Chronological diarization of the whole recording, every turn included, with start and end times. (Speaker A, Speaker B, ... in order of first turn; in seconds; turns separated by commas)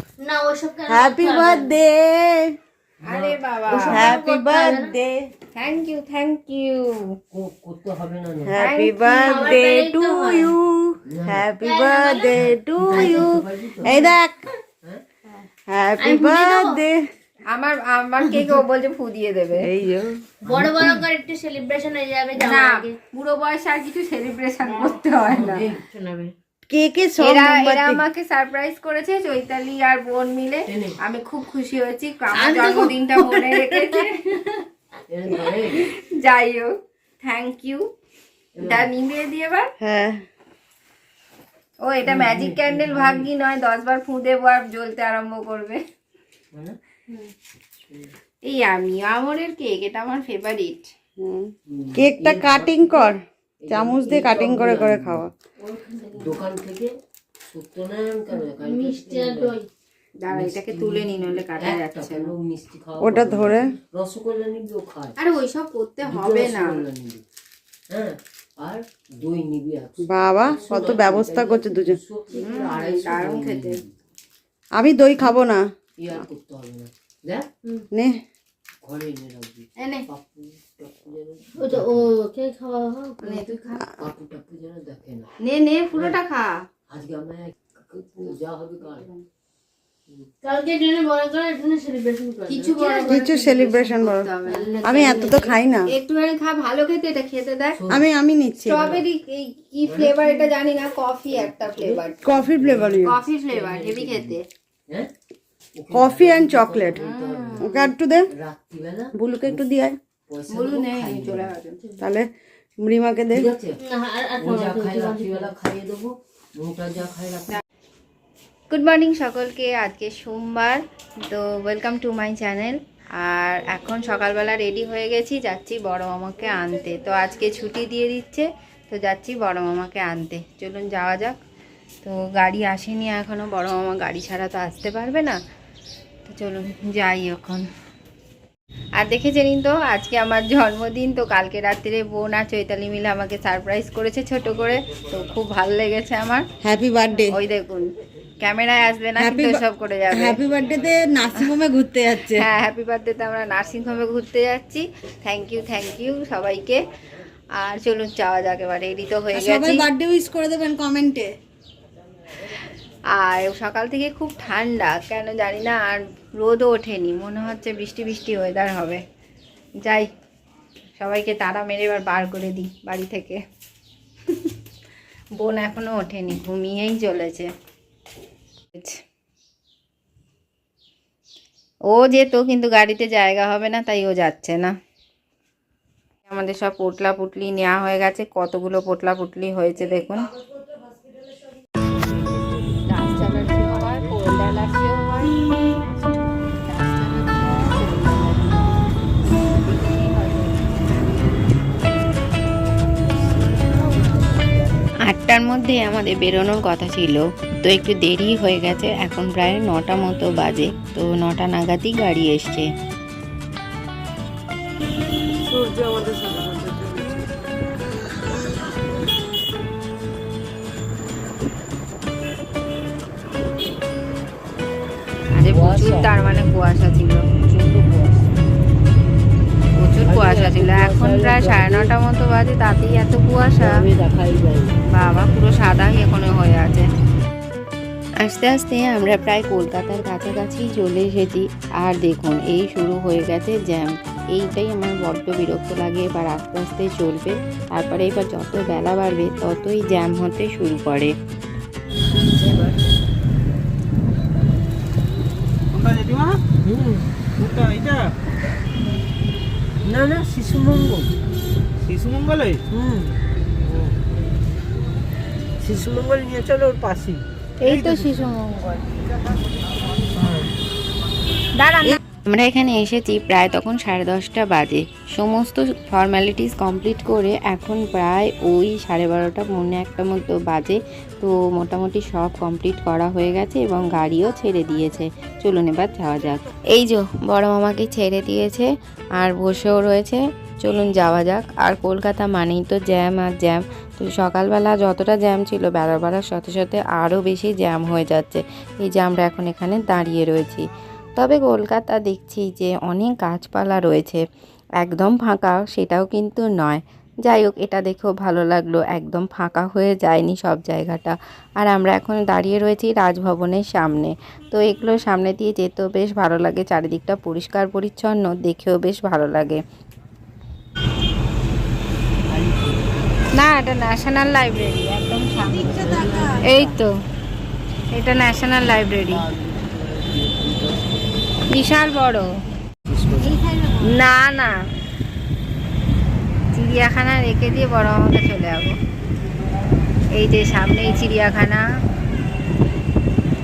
Speaker A: 0.2-1.8, Speaker B: 0.9-2.5, Speaker C: 3.0-4.1, Speaker D: 3.0-4.0, Speaker B: 3.8-5.2, Speaker A: 3.8-4.9, Speaker D: 5.5-7.2, Speaker C: 7.3-8.6, Speaker B: 8.4-14.4, Speaker D: 8.6-9.3, Speaker A: 9.0-10.5, Speaker C: 11.1-11.5, Speaker A: 11.6-13.3, Speaker C: 12.3-14.1, Speaker B: 15.7-17.0, Speaker A: 16.0-16.8, Speaker D: 17.5-19.7, Speaker B: 19.6-20.2, Speaker C: 20.4-21.0, Speaker A: 20.4-22.9, Speaker D: 22.4-25.7, Speaker C: 25.3-26.3, Speaker B: 26.7-28.0, Speaker D: 27.2-34.6, Speaker C: 30.7-31.0, Speaker A: 32.3-34.0, Speaker C: 35.1-35.9, Speaker D: 35.7-37.8, Speaker C: 38.5-38.9, Speaker D: 38.6-39.7, Speaker B: 39.8-40.2, Speaker D: 41.8-45.8, Speaker C: 42.0-43.3, Speaker D: 48.4-50.9, Speaker B: 51.2-55.3, Speaker C: 51.7-55.2, Speaker A: 55.6-56.4, Speaker C: 56.1-56.9, Speaker C: 57.5-59.6, Speaker A: 58.3-59.6, Speaker D: 60.2-62.3, Speaker C: 60.3-65.2, Speaker B: 63.0-63.7, Speaker D: 65.2-66.8, Speaker C: 66.0-67.2, Speaker C: 67.9-73.9, Speaker B: 70.0-72.0, Speaker D: 72.3-73.8, Speaker B: 74.8-75.7, Speaker C: 76.0-77.5, Speaker B: 77.9-78.2, Speaker C: 78.8-82.1, Speaker D: 79.8-80.0, Speaker A: 81.6-83.4, Speaker D: 83.2-83.8, Speaker C: 83.8-85.3, Speaker D: 85.4-86.6, Speaker C: 85.9-86.2, Speaker C: 86.9-89.1, Speaker D: 88.8-89.2, Speaker A: 90.4-93.3, Speaker D: 92.5-95.2, Speaker B: 93.0-94.3, Speaker A: 94.4-95.6, Speaker B: 94.8-95.9, Speaker D: 95.9-97.8, Speaker C: 97.7-98.1, Speaker B: 97.9-98.8, Speaker D: 98.6-102.2, Speaker C: 98.7-99.0, Speaker C: 99.8-100.5, Speaker C: 101.3-104.4, Speaker B: 102.2-103.2, Speaker D: 103.0-104.4, Speaker C: 105.7-107.7, Speaker B: 105.9-107.0, Speaker D: 107.0-107.9, Speaker B: 107.6-108.3, Speaker C: 108.3-109.7, Speaker B: 109.1-110.0, Speaker C: 110.3-111.6, Speaker D: 110.5-111.8, Speaker B: 112.0-113.5, Speaker C: 113.3-113.8, Speaker A: 113.8-115.5, Speaker C: 114.4-117.6, Speaker D: 118.7-131.4, Speaker D: 132.0-135.4, Speaker D: 136.2-137.6, Speaker D: 139.0-146.5, Speaker B: 146.6-147.4, Speaker D: 147.3-150.4, Speaker B: 149.2-152.5, Speaker D: 152.3-156.8, Speaker D: 157.5-159.9, Speaker B: 159.3-161.3, Speaker D: 163.2-169.0, Speaker D: 169.8-170.1, Speaker D: 171.0-173.4, Speaker D: 175.3-177.5, Speaker D: 181.9-184.7, Speaker D: 186.3-190.3, Speaker D: 192.9-195.5, Speaker C: 193.2-193.7, Speaker D: 196.6-198.8, Speaker D: 199.5-201.0, Speaker C: 203.4-204.4, Speaker D: 205.1-212.7, Speaker B: 215.4-217.3, Speaker D: 225.3-227.2, Speaker C: 225.5-226.1, Speaker C: 227.5-228.3, Speaker D: 229.8-233.7, Speaker C: 230.0-231.9, Speaker C: 233.6-234.8, Speaker D: 234.9-236.8, Speaker D: 238.2-251.1, Speaker C: 252.1-252.8, Speaker E: 255.7-256.4, Speaker C: 256.6-257.1, Speaker E: 257.4-258.1, Speaker C: 259.8-261.1, Speaker E: 261.9-262.6, Speaker C: 262.7-263.2, Speaker C: 265.6-267.2, Speaker D: 267.6-268.8, Speaker D: 271.6-304.2, Speaker D: 304.8-319.6, Speaker C: 322.3-323.0, Speaker D: 323.3-326.9, Speaker B: 325.6-326.5, Speaker C: 325.6-326.8, Speaker D: 327.9-329.2, Speaker C: 329.1-331.1, Speaker D: 331.5-332.3, Speaker C: 332.9-333.4, Speaker B: 333.5-333.8, Speaker D: 333.8-334.6, Speaker D: 336.5-338.8, Speaker D: 340.1-341.6